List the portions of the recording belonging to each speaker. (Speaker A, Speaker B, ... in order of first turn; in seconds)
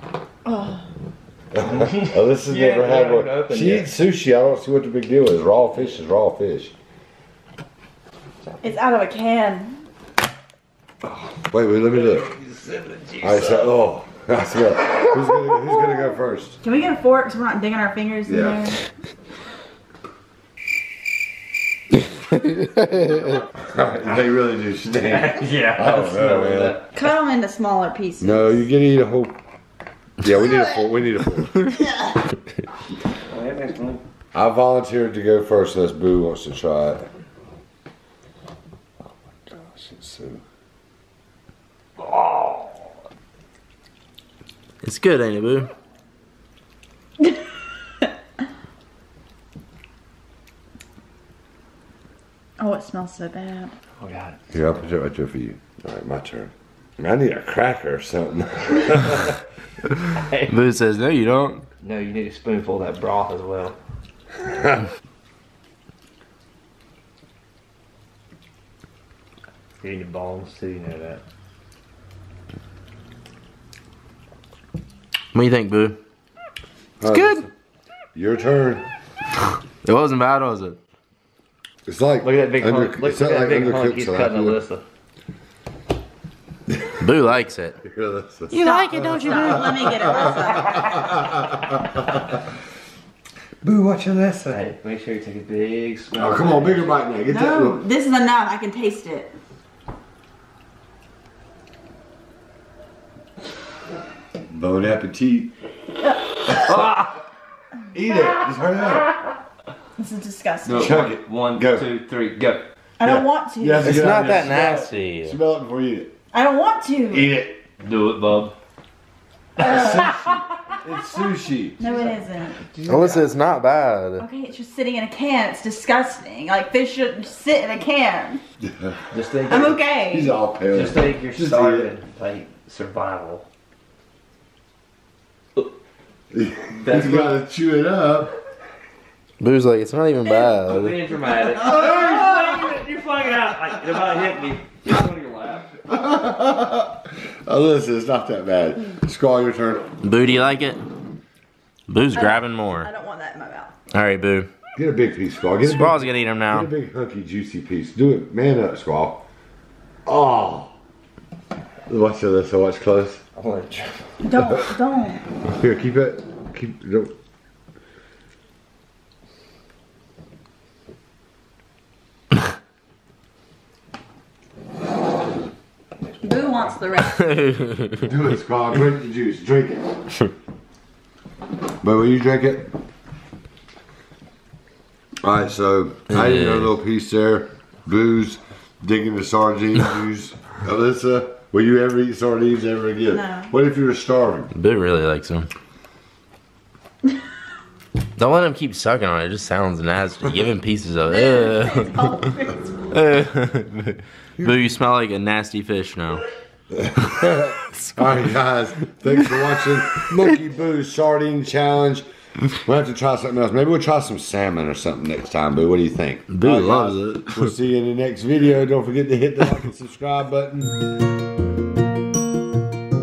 Speaker A: 0.5-0.9, 8.6-9.8, 16.6-18.8, 26.9-28.6, 52.6-53.7, 88.5-91.0, 97.3-99.3, 106.0-106.7, 110.0-111.0, 113.0-113.9, 116.3-117.3, 121.8-122.7, 124.2-128.4, 129.4-130.3, 152.2-153.7, 164.2-165.2, 176.2-177.5, 193.1-193.5, 201.1-202.8
Speaker B: 1.5-6.7, 11.0-12.3, 13.2-16.6, 18.3-18.7, 23.6-26.8, 28.2-29.4, 30.2-31.8, 34.3-37.1, 39.5-40.4, 54.5-59.4, 64.5-64.8, 77.0-77.5, 78.2-78.8, 81.9-84.6, 87.8-92.4, 93.6-94.6, 96.2-97.8, 104.5-105.5, 107.9-109.2, 110.8-111.9, 113.0-116.1, 117.1-117.6, 119.6-121.8, 128.7-129.0, 130.0-131.9, 136.3-138.3, 145.9-149.9, 154.8-159.2, 160.1-160.8, 161.9-163.2, 165.5-167.1, 178.0-179.9, 181.8-182.7, 185.2-194.5, 206.7-220.8
Speaker C: 1.8-3.9, 12.3-13.7, 24.8-26.9, 33.3-34.0, 54.0-54.4, 60.1-60.5, 61.8-63.8, 69.8-71.2, 82.2-84.8, 94.5-97.1, 106.7-107.1, 110.6-112.7, 114.1-114.8, 117.8-118.5, 121.8-122.1, 122.6-123.3, 129.1-129.8, 130.7-133.4, 136.8-137.4, 140.6-145.8, 163.4-164.2, 176.4-176.7
Speaker D: 44.8-45.7, 60.5-61.6, 75.3-76.0, 77.1-77.5, 79.8-80.8, 87.0-87.8, 88.5-90.0, 113.8-115.4, 122.8-124.3, 139.4-141.0, 150.0-150.8, 151.9-152.9, 153.9-154.5, 155.6-156.7, 177.2-178.0, 186.1-186.7, 194.5-195.5, 198.2-202.2, 202.9-206.2, 207.8-208.2, 216.3-217.5